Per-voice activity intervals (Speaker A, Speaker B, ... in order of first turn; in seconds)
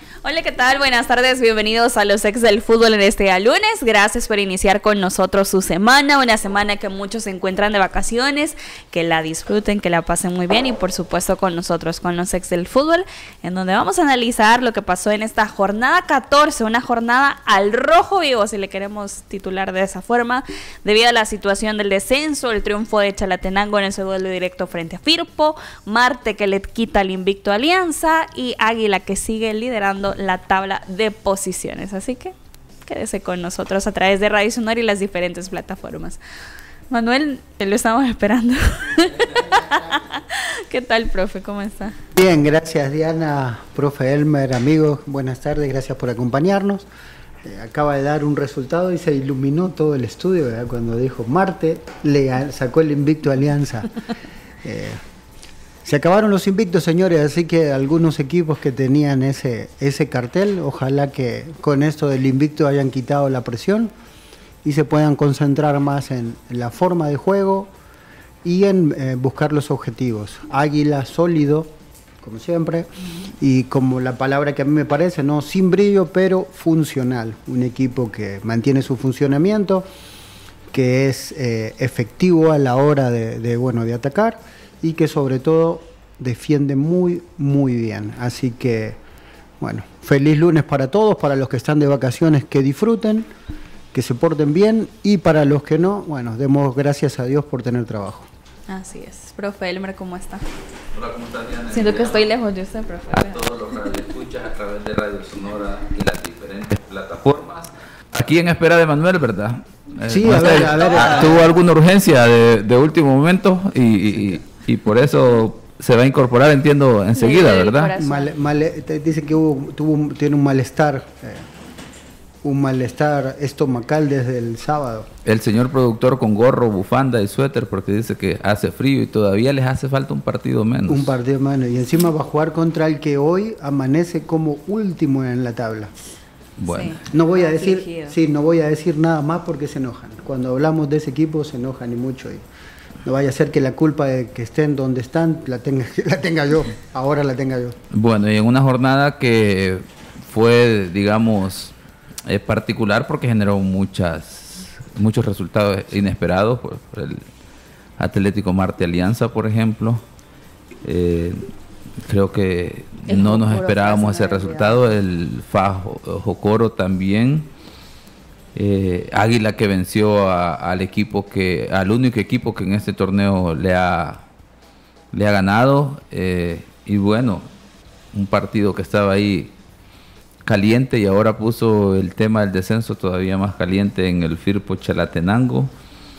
Speaker A: 0.2-32.3, 32.9-36.2, 36.9-42.0, 98.7-100.4, 101.7-103.4, 111.0-111.4, 117.2-118.3, 136.7-138.1, 163.1-164.8
Speaker B: 42.1-46.9, 47.4-53.9, 54.6-55.0, 55.8-63.9, 64.6-67.7, 68.4-79.9, 80.7-89.0, 89.6-93.3, 93.9-98.3, 110.0-111.5, 118.0-121.5, 122.4-125.1, 130.9-135.9, 137.1-142.4, 143.0-147.8
Speaker C: 100.9-102.2, 103.1-117.9, 125.2-131.1, 136.6-137.0, 147.9-151.7, 152.2-157.3, 158.0-160.0, 160.8-167.5, 168.5-174.2, 175.1-177.5, 178.1-179.5, 180.4-185.7